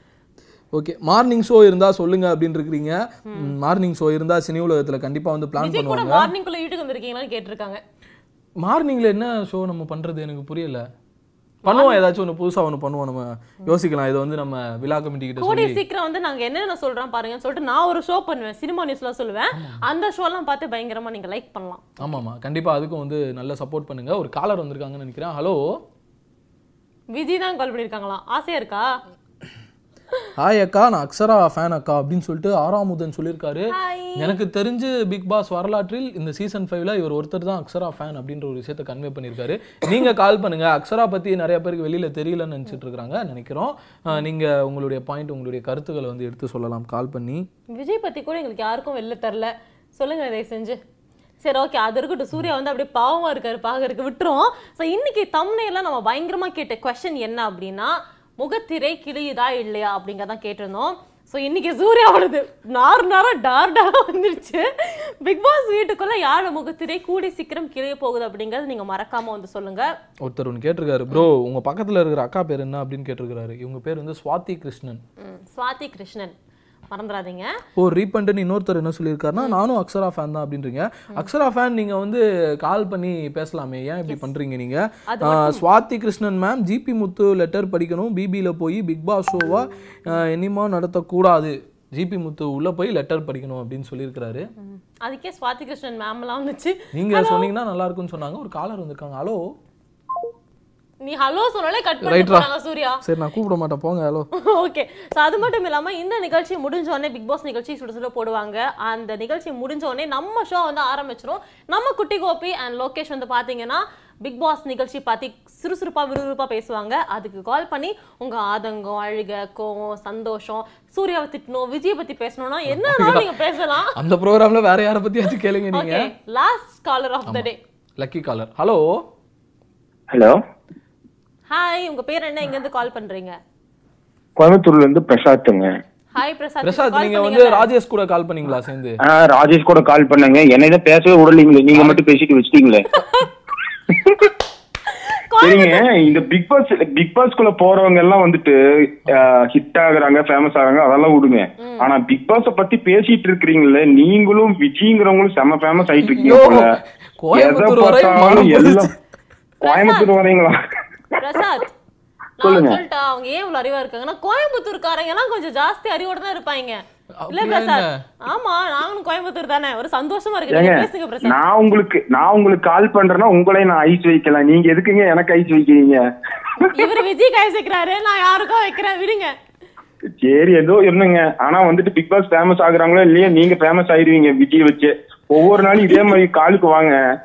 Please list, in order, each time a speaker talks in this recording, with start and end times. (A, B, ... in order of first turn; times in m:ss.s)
0:00.7-0:06.3 A
0:05.6-0:07.8 B
0:08.6-0:10.8 A
0:11.6-0:15.8 A
0:11.7-0:12.0 B
0:15.4-0:22.2 B
0:19.5-0:19.8 A
0:22.0-0:25.6 A
0:27.1-0:28.9 B
0:30.4-0:47.4 A
0:33.7-0:34.3 B
0:47.7-0:50.8 B
0:51.4-1:09.9 B
1:10.2-1:15.0 A
1:15.2-1:16.3 B
1:16.9-1:17.5 B
1:17.8-1:34.5 A
1:25.1-1:25.6 B
1:34.6-1:37.5 B
1:36.9-1:39.4 A
1:41.0-1:43.0 B
1:42.0-1:42.5 A
1:43.0-1:44.3 A
1:44.4-2:04.0 B
2:02.7-2:03.3 A
2:04.0-2:06.1 A
2:05.7-2:07.6 B
2:07.2-2:09.0 A
2:10.1-2:10.4 C
2:11.5-2:13.3 B
2:14.4-2:15.7 C
2:16.1-2:17.7 B
2:16.6-2:19.0 A
2:19.1-2:22.8 C
2:25.1-2:25.8 B
2:25.4-2:36.7 C
2:31.6-2:31.9 B
2:36.0-2:38.9 A
2:37.3-2:38.9 C
2:39.6-2:40.1 B
2:39.6-2:40.6 C
2:41.2-2:41.7 B
2:42.4-2:51.4 B
2:42.4-2:42.8 C
2:47.2-2:48.0 A
2:50.5-2:56.0 C
2:56.6-2:59.3 B
3:00.2-3:07.0 C